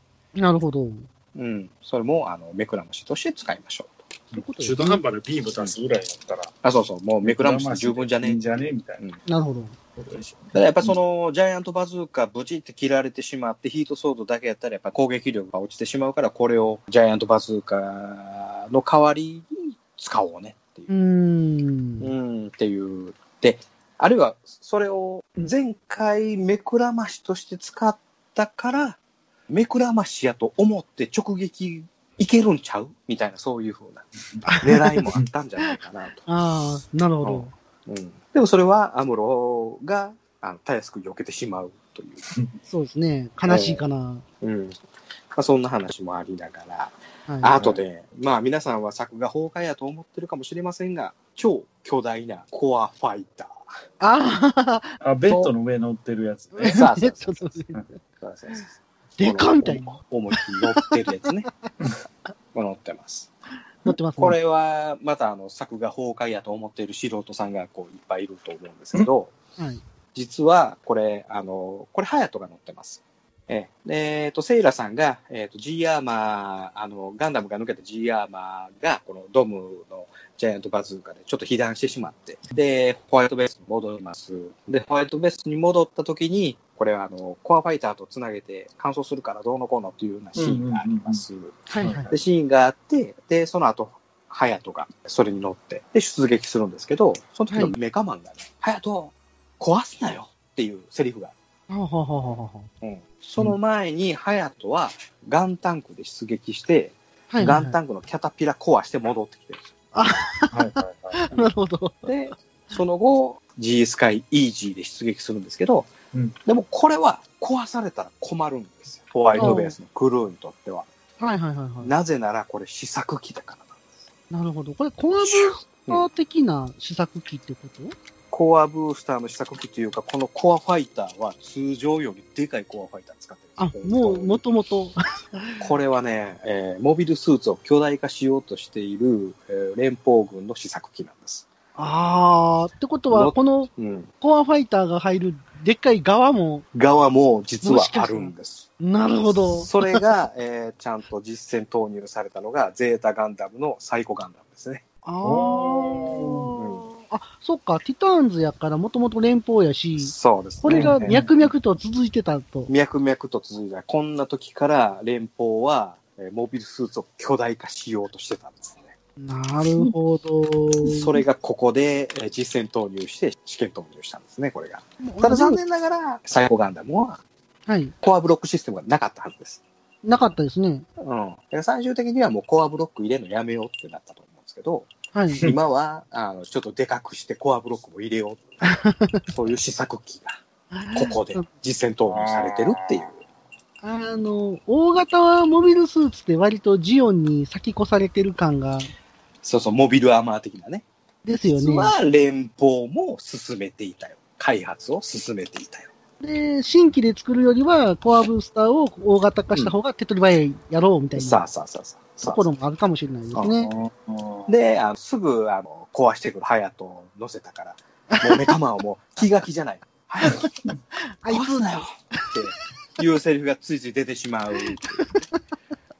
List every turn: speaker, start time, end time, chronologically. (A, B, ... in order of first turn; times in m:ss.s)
0:00.4-0:01.1 A
0:01.3-0:04.0 B
0:04.3-0:06.5 C
0:04.3-0:05.0 A
0:06.6-0:08.4 B
0:07.2-0:09.0 C
0:09.3-0:09.8 A
0:10.0-0:10.9 C
0:10.5-0:20.9 B
0:20.9-0:22.1 A
0:22.0-0:29.0 B
0:29.5-0:36.2 B
0:34.5-0:35.0 A
0:36.2-0:37.5 A
0:37.2-0:42.2 B
0:42.7-0:44.2 A
0:43.5-0:43.8 B
0:44.4-0:53.6 B
0:47.3-0:47.5 A
0:54.0-0:55.0 A
0:55.0-0:56.8 C
0:56.5-0:58.0 A
0:56.6-0:57.6 B
0:58.1-1:01.5 B
0:59.2-1:01.0 A
1:02.5-1:03.3 B
1:03.8-1:04.4 A
1:04.2-1:09.3 B
1:09.6-1:09.8 A
1:10.1-1:41.3 B
1:30.4-1:31.2 C
1:31.7-1:32.1 A
1:31.8-1:32.1 C
1:41.7-1:42.7 A
1:42.8-1:49.7 B
1:47.3-1:47.7 A
1:49.9-1:52.1 A
1:50.5-1:51.2 C
1:52.0-1:55.9 B
1:56.4-2:00.9 B
1:59.3-1:59.6 C
1:59.4-1:59.7 A
2:01.2-2:01.9 A
2:01.8-2:03.9 B
2:04.3-2:07.9 A
2:05.2-2:06.1 B
2:08.3-2:14.4 B
2:13.6-2:15.6 A
2:15.6-2:21.5 B
2:21.8-2:23.7 A
2:23.1-2:24.1 B
2:24.2-2:26.6 A
2:26.7-2:28.7 B
2:27.6-2:29.9 A
2:29.6-2:34.8 B
2:35.0-2:42.7 A
2:35.2-2:36.5 C
2:36.5-2:36.9 B
2:40.0-2:41.2 B
2:40.7-2:41.3 C
2:42.7-2:48.9 B
2:49.2-2:51.2 A
2:50.8-2:57.2 B
2:55.0-2:55.6 A
2:57.7-2:57.9 A
2:58.0-2:59.6 B
3:00.0-3:00.8 A
3:01.0-3:08.7 B
3:05.1-3:05.5 A
3:08.6-3:09.3 A
3:09.3-3:10.4 B
3:10.7-3:11.5 A
3:10.9-3:13.2 B
3:12.0-3:13.1 C
3:13.8-3:18.9 A
3:19.4-3:20.8 B
3:21.2-3:21.9 A
3:21.4-3:25.9 B
3:26.2-3:31.4 A
3:31.2-3:32.4 B
3:32.2-3:33.7 A
3:33.3-3:33.7 B
3:33.6-3:34.5 C
3:34.5-3:40.5 B
3:38.1-3:38.5 A
3:41.0-3:42.5 A
3:41.3-3:45.2 B
3:44.7-3:45.4 A